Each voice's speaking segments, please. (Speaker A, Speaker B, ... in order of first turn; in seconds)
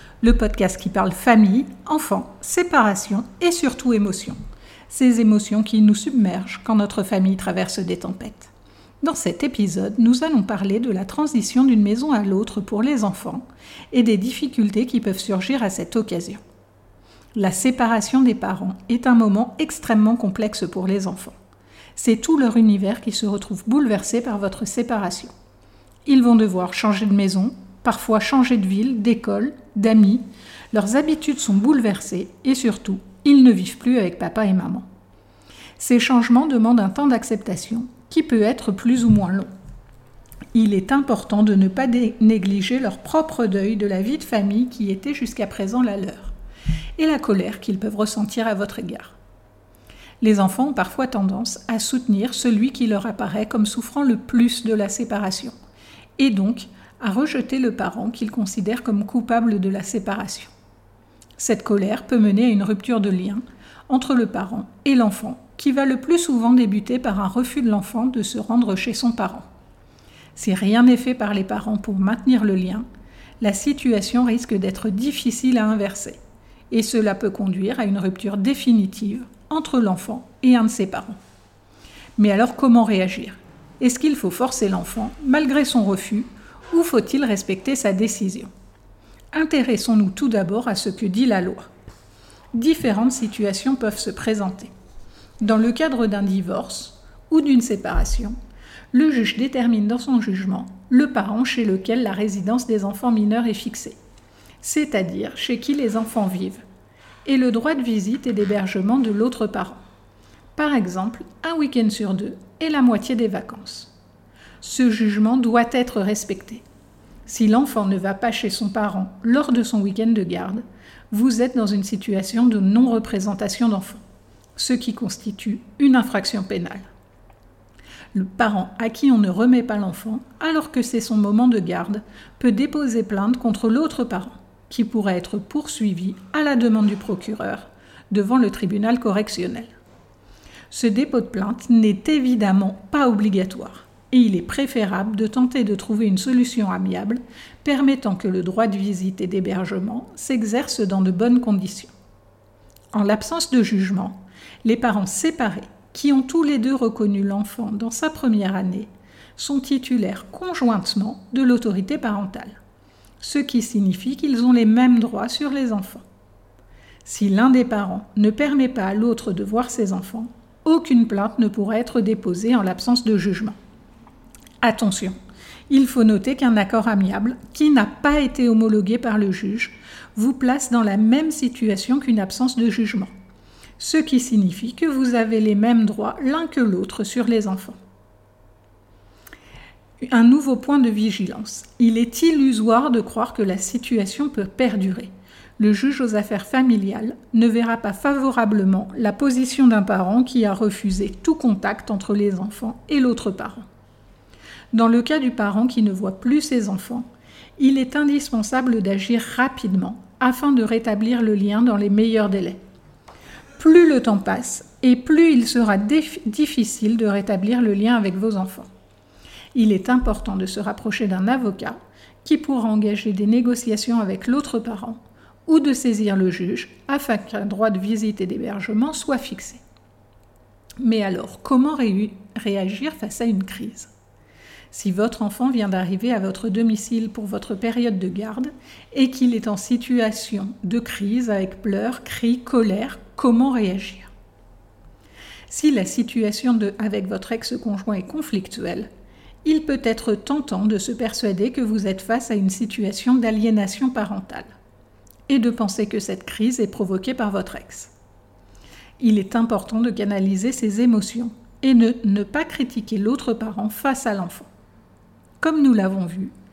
Speaker A: 0.2-4.4, 4.9-16.4, 17.4-21.4, 22.0-25.3, 26.1-34.9, 35.8-39.5, 40.5-46.3, 47.0-49.2, 50.2-55.5, 56.2-60.5, 61.4-69.5, 70.3-72.9, 73.4-76.2, 76.7-81.2, 82.2-88.5, 89.3-91.7, 92.5-94.7, 95.4-98.3, 98.9-104.0, 104.6-106.6, 107.2-109.8, 110.6-113.9, 114.6-116.6, 117.3-124.0, 124.6-126.9, 128.1-139.7, 140.7-151.9, 152.9-162.6, 163.2-166.0, 167.1-173.6, 174.6-175.2, 175.7-183.1, 183.8-187.8, 190.0-203.7, 204.7-207.1, 207.6-212.6, 213.6-218.7, 219.5-229.6, 230.8-233.9, 234.7-244.1, 245.5-248.9, 249.4-254.5, 255.3-257.9, 259.0-264.5, 265.4-266.3